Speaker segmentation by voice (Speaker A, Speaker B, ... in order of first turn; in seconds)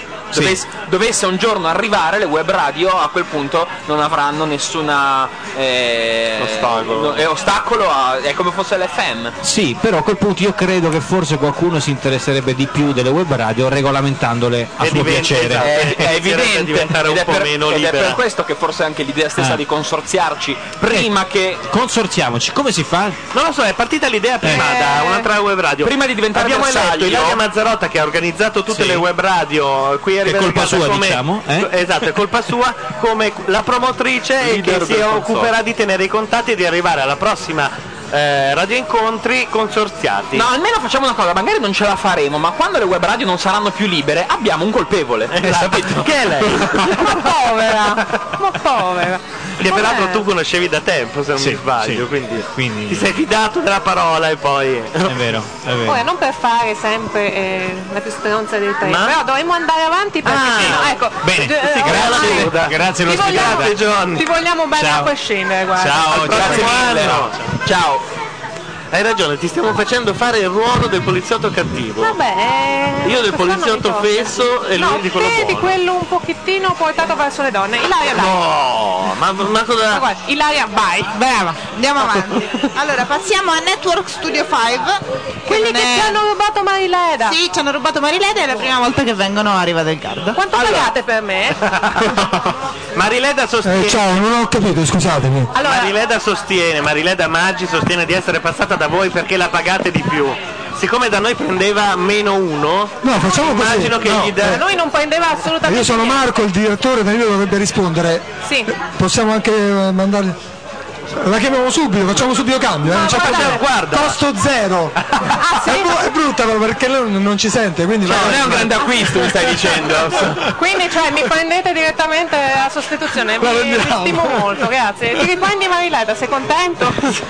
Speaker A: 0.3-0.6, 9.4-16.1, 19.4-19.6, 20.8-21.1, 21.7-23.2, 24.4-24.7, 30.2-31.7, 51.4-53.1, 55.1-56.0, 60.3-63.8, 64.8-65.1, 65.8-67.3
Speaker B: 0.3-9.3, 15.6-21.6, 25.8-27.4, 34.6-35.4, 40.3-46.6, 66.1-68.0, 118.1-120.4
Speaker C: 6.7-7.0, 14.8-18.2, 23.3-40.5, 45.3-47.2, 49.6-55.3, 58.8-59.2, 60.2-60.9, 61.6-64.3, 66.0-67.3, 68.9-72.2, 73.0-75.8, 78.1-80.0, 90.6-90.8, 91.8-92.1, 93.0-94.0, 95.6-104.6, 113.2-114.1
Speaker D: 24.5-25.3, 46.9-50.3, 55.9-66.6, 72.0-78.4, 79.9-81.5, 85.5-87.4, 90.3-91.6, 95.5-95.9, 103.2-106.3, 108.4-108.7, 112.8-113.6, 115.4-116.0, 120.5-127.1
Speaker E: 81.2-86.2, 87.2-90.4
Speaker F: 93.6-95.5, 103.0-104.6, 105.6-110.4, 111.1-115.0, 115.6-119.3